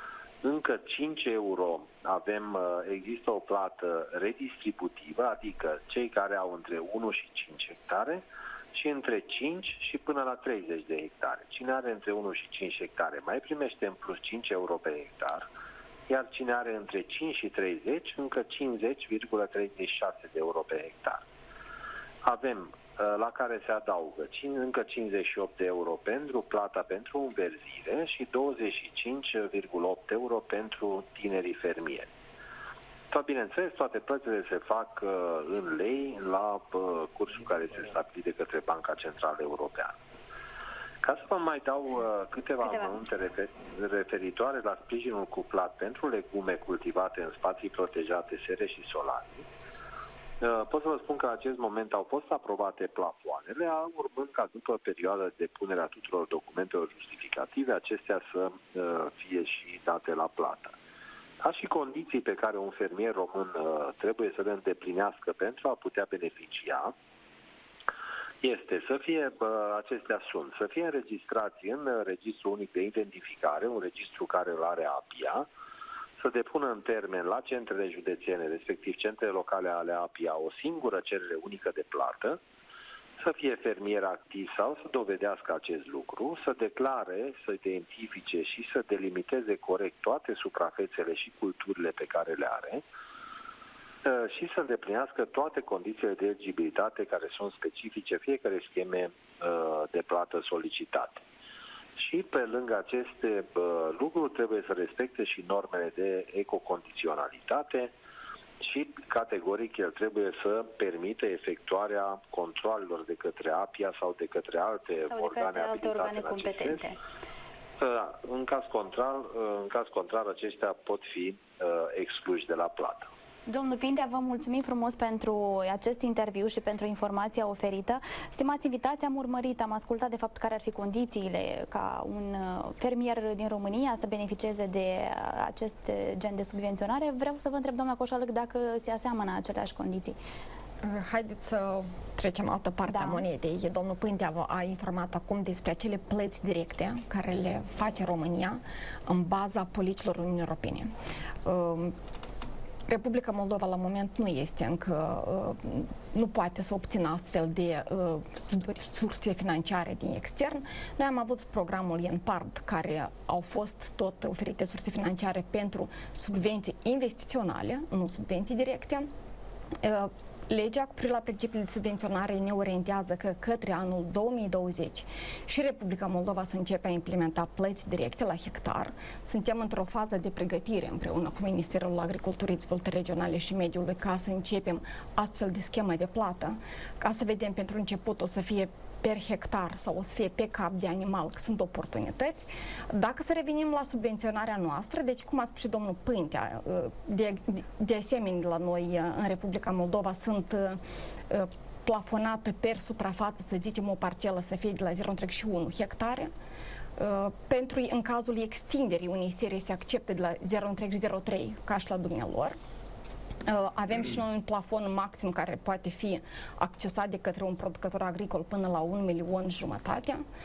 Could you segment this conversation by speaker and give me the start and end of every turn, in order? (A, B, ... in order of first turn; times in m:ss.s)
0:00.4-0:15.5 A
0:16.1-0:21.2 A
0:22.2-0:32.1 A
0:33.1-0:40.0 A
0:41.0-0:49.4 A
0:42.6-0:43.0 B
0:50.4-1:00.7 A
1:01.4-1:06.9 A
1:08.4-1:15.5 A
1:16.2-1:22.4 A
1:23.2-1:32.8 A
1:34.0-1:41.2 A
1:42.0-1:47.9 A
1:48.6-1:56.9 A
1:55.0-1:57.0 B
1:57.8-2:03.1 A
2:03.5-2:20.2 B
2:20.8-2:30.9 C
2:22.9-2:23.2 B
2:31.4-2:31.9 C
2:32.9-2:49.1 C
2:49.8-3:26.3 C
3:27.0-3:32.6 C
3:33.4-3:40.2 C